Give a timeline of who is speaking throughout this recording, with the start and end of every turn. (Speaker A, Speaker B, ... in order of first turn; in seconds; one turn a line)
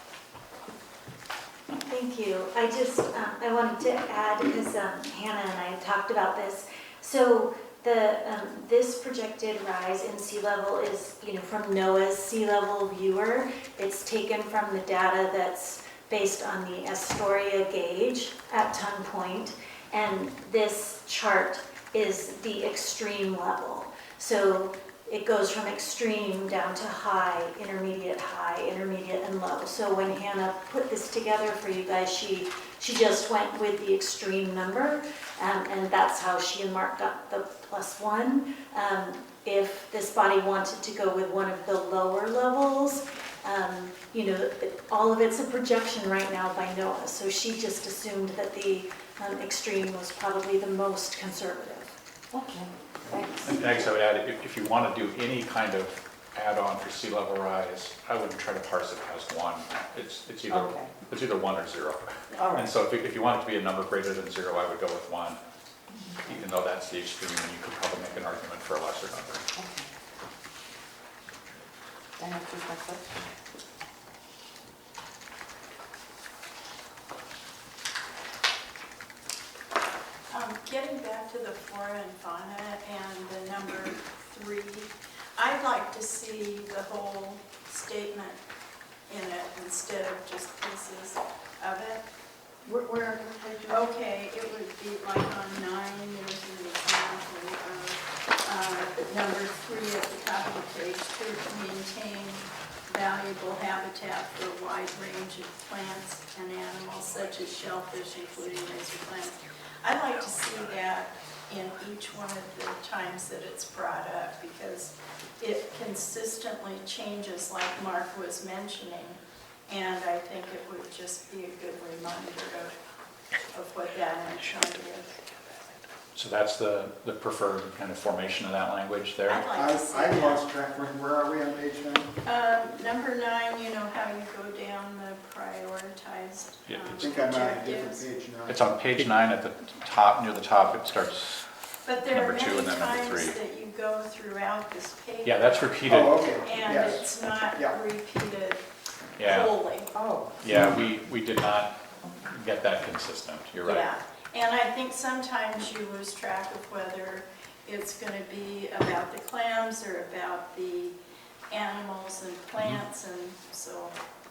Speaker A: 1.7-52.0
Speaker B: 52.3-53.8
Speaker C: 53.4-65.4
Speaker B: 60.5-60.9
Speaker B: 62.4-62.7
Speaker B: 66.0-66.4
Speaker C: 66.2-69.5
Speaker B: 69.5-69.9
Speaker B: 72.2-73.3
Speaker D: 80.3-88.4
Speaker D: 89.1-92.0
Speaker B: 92.6-93.9
Speaker D: 93.7-122.8
Speaker D: 123.5-125.2
Speaker C: 126.1-129.4
Speaker D: 129.2-130.4
Speaker E: 129.5-132.2
Speaker D: 132.2-138.1
Speaker C: 136.7-136.9
Speaker E: 136.9-138.7
Speaker C: 138.5-143.4
Speaker D: 141.8-145.8
Speaker C: 145.2-146.3
Speaker E: 145.8-147.8
Speaker D: 146.4-148.6
Speaker C: 149.2-149.6
Speaker D: 149.2-149.9
Speaker B: 149.9-150.8
Speaker C: 150.4-153.9
Speaker D: 153.6-160.9
Speaker D: 161.5-163.9